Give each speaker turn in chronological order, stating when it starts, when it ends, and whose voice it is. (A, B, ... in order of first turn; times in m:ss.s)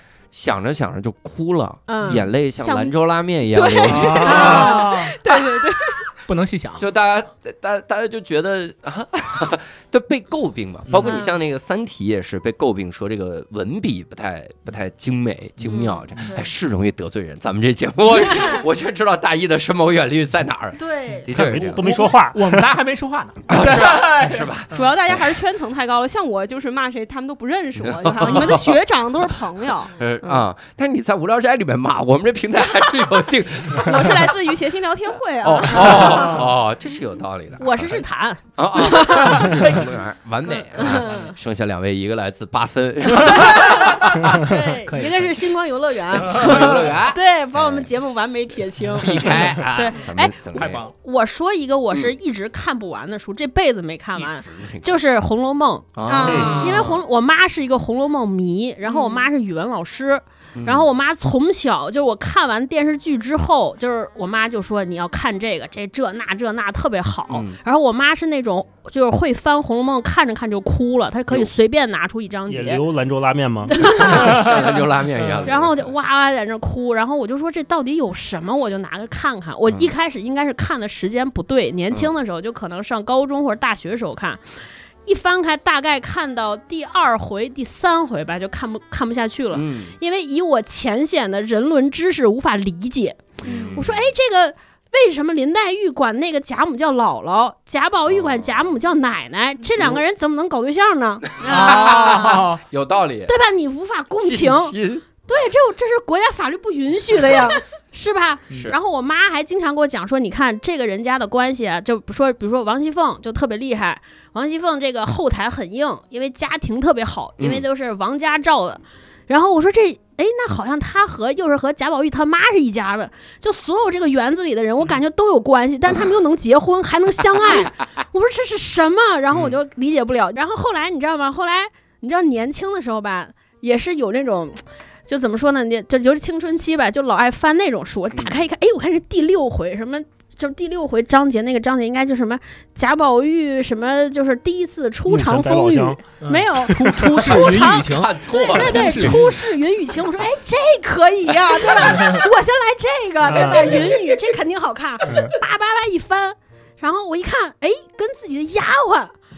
0:00.3-0:04.8 A
0:01.9-0:02.2 B
0:02.6-0:02.9 C
0:03.5-0:05.1 B
0:03.9-0:05.1 D
0:04.0-0:06.0 C
0:06.3-0:06.9 D
0:06.8-0:21.9 A
0:10.9-0:11.2 D
0:11.0-0:11.4 B
0:15.6-0:16.5 B
0:18.2-0:18.6 B
0:20.8-0:21.3 B
0:21.3-0:22.6 E
0:21.8-0:24.5 D
0:23.5-0:25.4 A
0:24.7-0:30.4 C
0:27.8-0:28.8 A
0:29.9-0:34.4 A
0:33.7-0:36.4 C
0:35.4-0:38.0 A
0:37.6-0:39.8 B
0:38.6-0:44.4 A
0:40.5-0:41.3 B
0:43.2-0:50.4 B
0:44.9-0:45.3 D
0:46.2-0:47.9 A
0:46.2-0:46.7 D
0:49.0-0:50.8 A
0:50.5-0:50.9 D
0:51.0-1:12.8 B
0:54.2-0:55.0 A
0:55.9-0:57.0 A
0:56.1-0:56.8 C
0:56.2-0:56.7 E
0:58.8-0:59.3 C
1:00.6-1:00.9 A
1:07.3-1:07.6 A
1:12.5-1:14.1 E
1:13.7-1:14.6 B
1:13.8-1:15.9 A
1:15.4-1:33.2 B
1:19.7-1:19.9 A
1:29.5-1:29.9 A
1:33.4-1:34.1 A
1:33.4-1:33.8 C
1:33.7-1:42.4 B
1:38.1-1:38.5 A
1:41.4-1:43.3 A
1:41.4-1:42.6 D
1:43.3-2:39.1 B
1:44.2-1:45.0 A
1:57.4-1:57.6 A
2:25.1-2:26.0 E
2:26.2-2:29.3 D
2:26.7-2:27.1 E
2:27.4-2:29.3 A
2:31.8-2:32.2 D
2:33.2-2:33.9 E
2:35.0-2:35.4 E